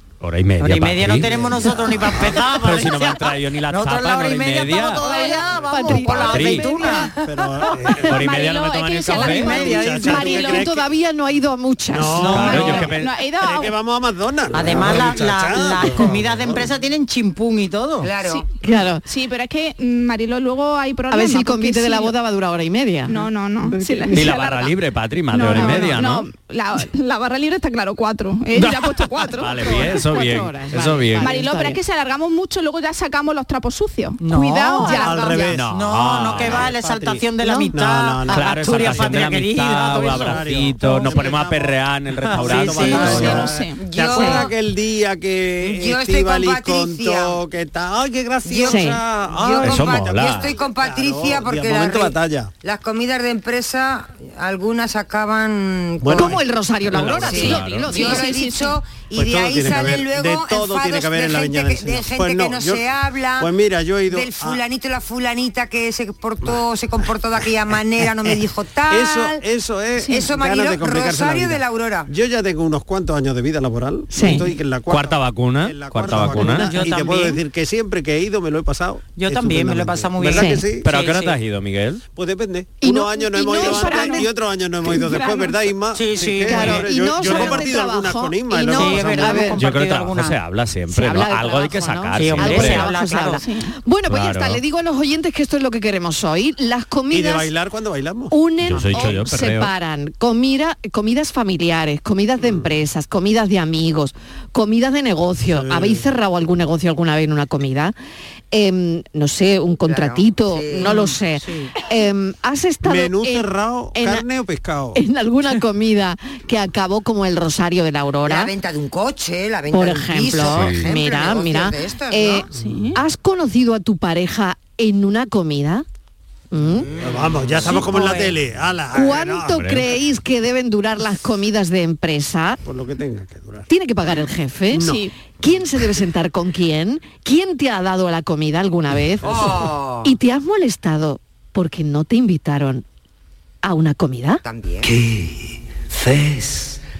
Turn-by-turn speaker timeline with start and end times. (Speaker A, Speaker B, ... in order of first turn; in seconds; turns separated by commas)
Speaker A: 0.2-5.0, Speaker B: 0.6-3.2, Speaker C: 1.2-1.5, Speaker C: 2.2-2.9, Speaker B: 3.7-7.2, Speaker C: 5.1-8.2, Speaker D: 5.7-7.1, Speaker A: 5.9-6.7, Speaker A: 8.1-9.7, Speaker E: 8.1-10.6, Speaker C: 9.1-10.8, Speaker B: 9.2-10.2, Speaker D: 10.0-12.9, Speaker C: 11.9-16.6, Speaker A: 12.2-13.1, Speaker E: 12.5-13.8, Speaker B: 14.5-18.1, Speaker F: 18.0-18.5, Speaker D: 18.6-19.0, Speaker E: 19.1-22.1, Speaker D: 21.1-24.3, Speaker E: 23.1-24.7, Speaker A: 24.1-26.3, Speaker E: 25.3-29.9, Speaker D: 25.5-25.9, Speaker A: 28.6-31.3, Speaker D: 29.6-31.8, Speaker E: 31.2-35.5, Speaker B: 34.2-40.5, Speaker D: 34.8-35.3, Speaker C: 34.9-39.2, Speaker A: 35.4-36.7, Speaker A: 38.2-43.5, Speaker C: 40.0-50.1, Speaker B: 42.3-43.5, Speaker E: 42.8-43.8, Speaker F: 43.8-44.5, Speaker D: 44.1-44.5, Speaker F: 45.6-47.4, Speaker F: 48.4-56.4, Speaker D: 48.6-49.0, Speaker A: 49.6-50.5, Speaker C: 50.6-52.5, Speaker C: 56.0-56.4, Speaker D: 56.1-58.3, Speaker A: 56.9-57.9, Speaker F: 57.1-63.5, Speaker E: 57.3-58.8, Speaker C: 59.1-64.6, Speaker F: 64.0-69.4, Speaker C: 67.4-80.8, Speaker F: 70.0-72.1, Speaker D: 74.1-74.4, Speaker A: 74.9-76.7, Speaker B: 76.3-77.4, Speaker B: 79.2-81.3, Speaker D: 80.3-80.6, Speaker A: 80.8-82.0, Speaker C: 82.1-89.5, Speaker D: 82.8-84.3, Speaker E: 83.4-84.3, Speaker E: 84.8-85.6, Speaker B: 85.9-87.7, Speaker D: 86.5-89.6, Speaker B: 88.7-90.4, Speaker A: 89.5-92.9, Speaker D: 90.9-97.5, Speaker B: 92.2-93.4, Speaker E: 93.4-93.7, Speaker A: 94.1-94.6, Speaker C: 97.1-99.2, Speaker D: 98.3-107.9, Speaker A: 98.6-99.7, Speaker C: 102.4-102.7, Speaker C: 105.5-106.0, Speaker D: 108.5-114.2, Speaker F: 109.8-111.0, Speaker B: 110.8-111.7, Speaker C: 112.8-115.0, Speaker D: 114.9-118.5, Speaker F: 118.2-122.5, Speaker D: 119.7-125.8, Speaker A: 120.5-120.9, Speaker E: 122.5-123.0, Speaker D: 126.5-126.9, Speaker C: 127.0-129.8, Speaker B: 127.6-128.3, Speaker D: 128.9-132.6, Speaker C: 132.6-133.7, Speaker D: 133.7-142.8, Speaker C: 134.7-135.0, Speaker E: 134.8-135.1, Speaker F: 139.2-140.1, Speaker D: 143.6-144.4, Speaker F: 144.4-144.9, Speaker G: 144.8-146.8